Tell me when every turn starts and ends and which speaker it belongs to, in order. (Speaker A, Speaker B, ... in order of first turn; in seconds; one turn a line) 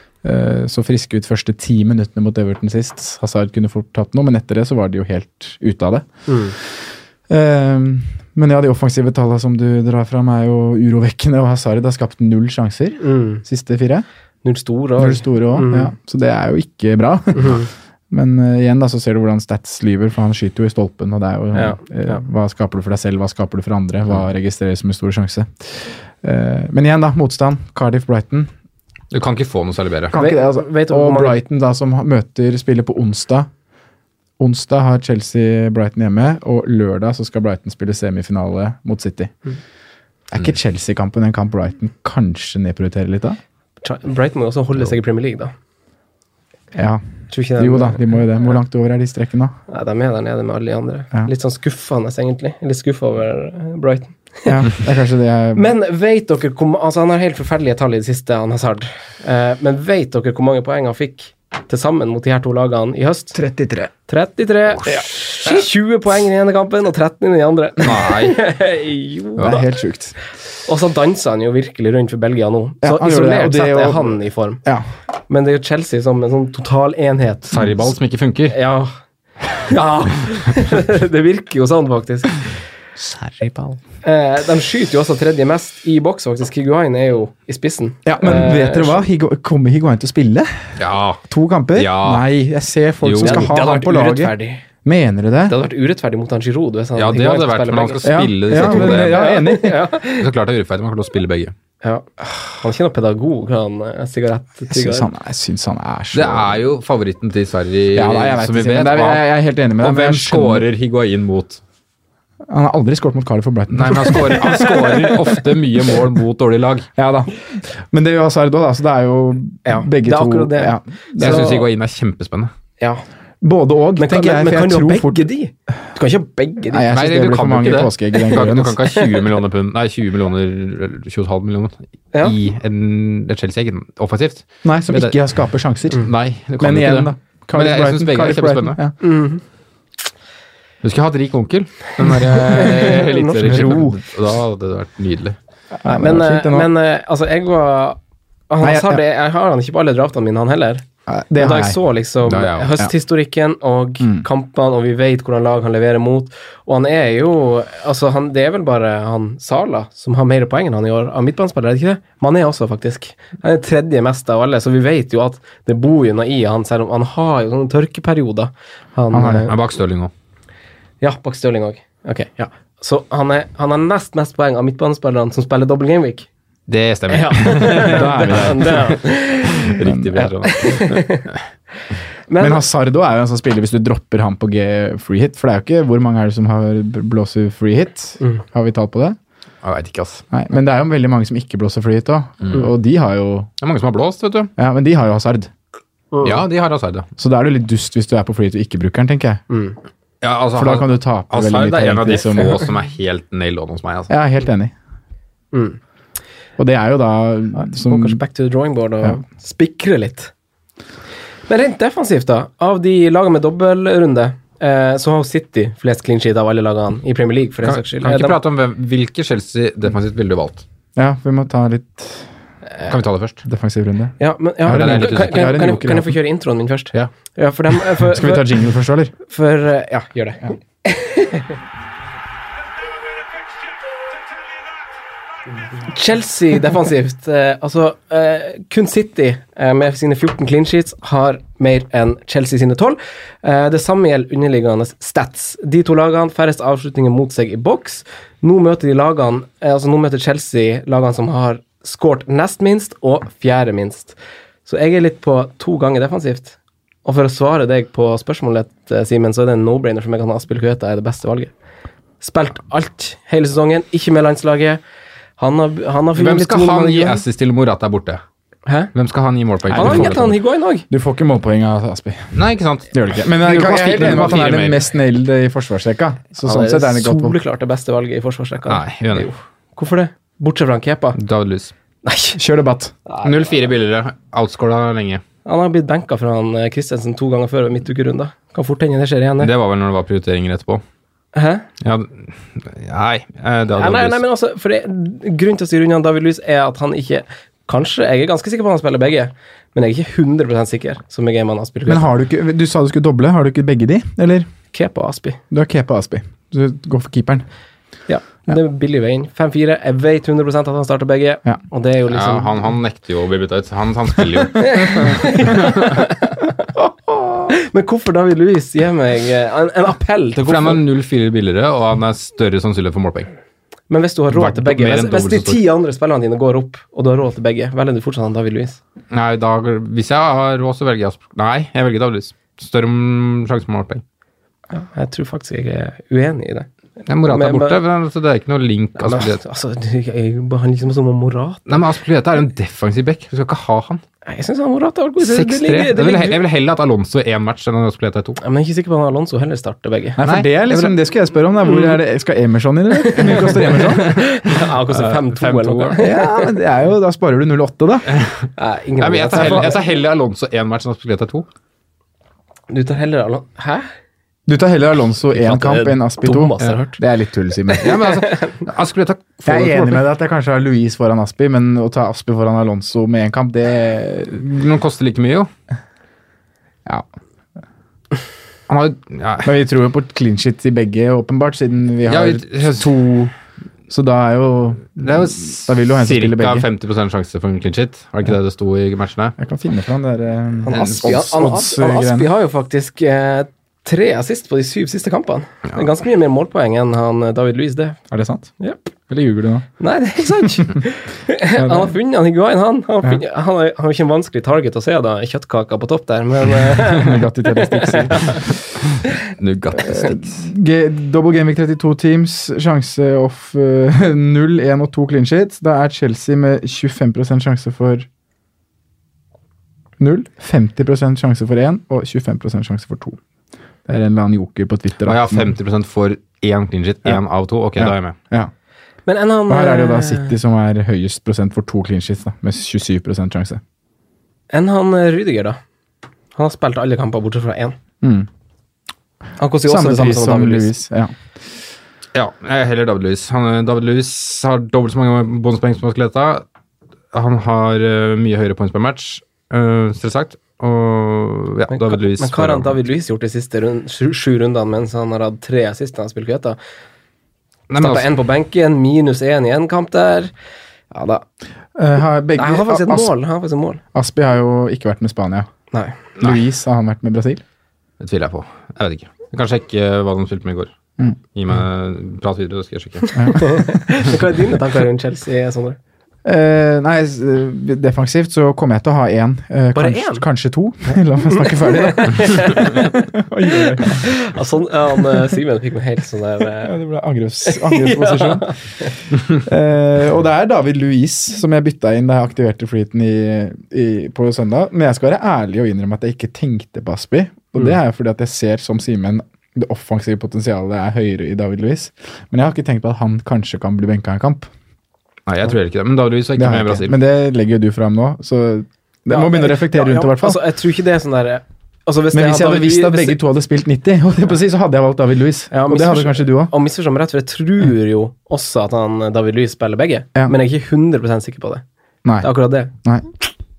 Speaker A: 0.2-14.1
Speaker B: 6.3-6.6
Speaker B: 13.0-13.4
Speaker B: 14.4-15.9
Speaker A: 15.0-28.5
Speaker B: 17.4-17.7
Speaker B: 21.5-22.2
Speaker C: 29.1-30.1
Speaker A: 30.1-33.5
Speaker B: 30.1-31.4
Speaker A: 34.4-39.3
Speaker A: 40.3-43.4
Speaker B: 43.8-45.5
Speaker A: 46.8-49.6
Speaker B: 47.3-48.2
Speaker B: 49.7-54.8
Speaker A: 54.5-55.7
Speaker B: 55.5-63.4
Speaker A: 63.4-63.9
Speaker B: 64.1-69.7
Speaker C: 67.8-68.4
Speaker A: 69.4-70.2
Speaker B: 70.7-74.6
Speaker A: 72.8-74.9
Speaker B: 75.3-77.6
Speaker C: 77.5-78.6
Speaker B: 78.5-78.9
Speaker B: 79.6-82.4
Speaker A: 83.0-83.8
Speaker B: 84.0-89.0
Speaker A: 88.0-90.8
Speaker C: 90.8-92.3
Speaker A: 91.3-95.6
Speaker C: 93.0-93.6
Speaker B: 93.2-94.7
Speaker B: 95.5-100.3
Speaker C: 97.0-99.3
Speaker A: 98.0-99.9
Speaker C: 100.1-101.5
Speaker B: 101.8-105.1
Speaker A: 104.7-106.6
Speaker C: 106.1-111.6
Speaker A: 107.9-110.7
Speaker A: 112.5-114.7
Speaker C: 113.7-116.9
Speaker A: 117.0-121.5
Speaker B: 119.7-121.7
Speaker C: 121.2-122.5
Speaker A: 123.4-125.3
Speaker B: 124.0-126.9
Speaker A: 126.7-128.8
Speaker C: 126.9-135.2
Speaker A: 134.6-138.9
Speaker C: 136.0-138.8
Speaker B: 139.0-139.4
Speaker C: 140.8-145.4
Speaker B: 142.3-143.8
Speaker A: 143.4-144.0
Speaker A: 145.8-146.7
Speaker B: 145.9-148.0
Speaker B: 148.5-150.8
Speaker A: 148.6-149.0
Speaker A: 151.1-151.8
Speaker B: 151.4-169.5
Speaker C: 152.2-152.8
Speaker A: 154.0-154.3
Speaker A: 169.1-169.5
Speaker C: 169.5-170.1
Speaker B: 171.0-176.3
Speaker C: 176.7-179.0
Speaker B: 177.1-181.2
Speaker A: 177.7-178.9
Speaker C: 179.6-181.4
Speaker A: 179.8-180.2
Speaker B: 182.3-182.6
Speaker A: 182.4-189.2
Speaker C: 189.6-190.2
Speaker A: 190.3-193.5
Speaker C: 193.6-194.5
Speaker A: 194.6-195.5
Speaker B: 196.1-196.4
Speaker C: 196.2-197.1
Speaker A: 197.2-199.4
Speaker B: 199.5-199.8
Speaker C: 200.2-204.1
Speaker A: 200.6-202.6
Speaker B: 202.1-202.4
Speaker A: 204.1-204.7
Speaker B: 205.5-205.8
Speaker A: 206.6-208.2
Speaker B: 207.6-210.3
Speaker B: 211.5-218.4
Speaker C: 217.6-220.6
Speaker A: 221.0-222.3
Speaker C: 222.9-223.4
Speaker A: 223.4-226.2
Speaker B: 224.2-228.5
Speaker C: 224.7-225.6
Speaker A: 227.9-229.1
Speaker B: 229.3-231.5
Speaker B: 235.9-261.5
Speaker B: 262.2-264.8
Speaker B: 265.4-267.2
Speaker C: 266.2-268.2
Speaker B: 268.7-268.9
Speaker C: 268.9-270.4
Speaker A: 269.7-270.3
Speaker B: 269.7-270.9
Speaker A: 270.9-277.4
Speaker C: 272.3-274.8
Speaker B: 273.4-274.5
Speaker B: 276.4-281.2
Speaker C: 278.7-279.3
Speaker C: 281.2-281.7
Speaker B: 282.1-282.4
Speaker A: 282.4-282.9
Speaker B: 283.1-283.3
Speaker C: 283.2-285.2
Speaker B: 285.4-289.5
Speaker C: 289.4-290.8
Speaker B: 291.3-291.7
Speaker C: 291.8-294.2
Speaker B: 293.8-302.1
Speaker A: 301.9-304.5
Speaker B: 304.7-305.4
Speaker A: 305.5-307.5
Speaker B: 308.1-312.5
Speaker C: 312.1-316.0
Speaker B: 314.6-316.6
Speaker A: 317.1-317.4
Speaker B: 317.5-320.8
Speaker C: 320.4-323.3
Speaker B: 323.9-328.8
Speaker C: 324.3-325.6
Speaker C: 329.1-334.0
Speaker B: 334.7-336.7
Speaker C: 337.1-339.4
Speaker B: 337.3-337.8
Speaker B: 339.0-341.8
Speaker C: 341.7-344.0
Speaker B: 344.3-346.4
Speaker C: 345.2-348.4
Speaker B: 348.4-350.2
Speaker A: 350.2-354.1
Speaker C: 350.2-351.0
Speaker B: 353.0-356.5
Speaker C: 353.8-356.0
Speaker A: 356.0-358.1
Speaker B: 358.6-359.8
Speaker C: 359.0-361.5
Speaker B: 362.7-363.9
Speaker A: 364.5-368.0
Speaker B: 365.4-367.0
Speaker B: 367.7-368.6
Speaker C: 367.8-370.0
Speaker A: 369.4-374.4
Speaker C: 374.4-375.5
Speaker C: 378.7-379.5
Speaker A: 379.4-383.3
Speaker C: 382.1-382.9
Speaker A: 383.9-386.7
Speaker C: 385.0-389.4
Speaker A: 389.4-392.3
Speaker B: 390.6-398.0
Speaker C: 390.7-391.1
Speaker A: 398.1-398.5
Speaker A: 399.1-399.7
Speaker B: 399.8-408.4
Speaker A: 401.6-401.9
Speaker A: 406.9-408.4
Speaker C: 409.4-410.3
Speaker A: 409.8-418.1
Speaker A: 420.0-423.2
Speaker A: 423.9-425.5
Speaker C: 425.0-428.1
Speaker A: 427.8-428.5
Speaker B: 429.1-430.3
Speaker A: 429.5-433.6
Speaker B: 434.5-435.6
Speaker B: 436.4-437.8
Speaker A: 438.0-438.3
Speaker B: 439.4-440.7
Speaker A: 439.7-441.1
Speaker C: 442.1-446.4
Speaker C: 447.1-452.8
Speaker B: 451.7-456.6
Speaker C: 457.7-458.1
Speaker B: 457.8-460.3
Speaker B: 460.9-461.2
Speaker A: 461.8-463.1
Speaker B: 462.4-463.8
Speaker A: 463.9-465.5
Speaker B: 465.7-466.0
Speaker A: 466.2-467.4
Speaker C: 468.0-470.7
Speaker C: 471.3-473.2
Speaker A: 473.1-473.8
Speaker B: 473.4-475.8
Speaker A: 476.2-484.1
Speaker B: 479.8-480.3
Speaker B: 480.9-483.0
Speaker B: 483.6-486.8
Speaker A: 486.6-488.6
Speaker B: 487.4-488.9
Speaker A: 489.3-504.5
Speaker C: 505.3-507.0
Speaker A: 506.4-510.4
Speaker B: 509.1-513.2
Speaker A: 512.1-516.5
Speaker B: 515.5-521.6
Speaker A: 522.0-523.1
Speaker B: 522.2-522.7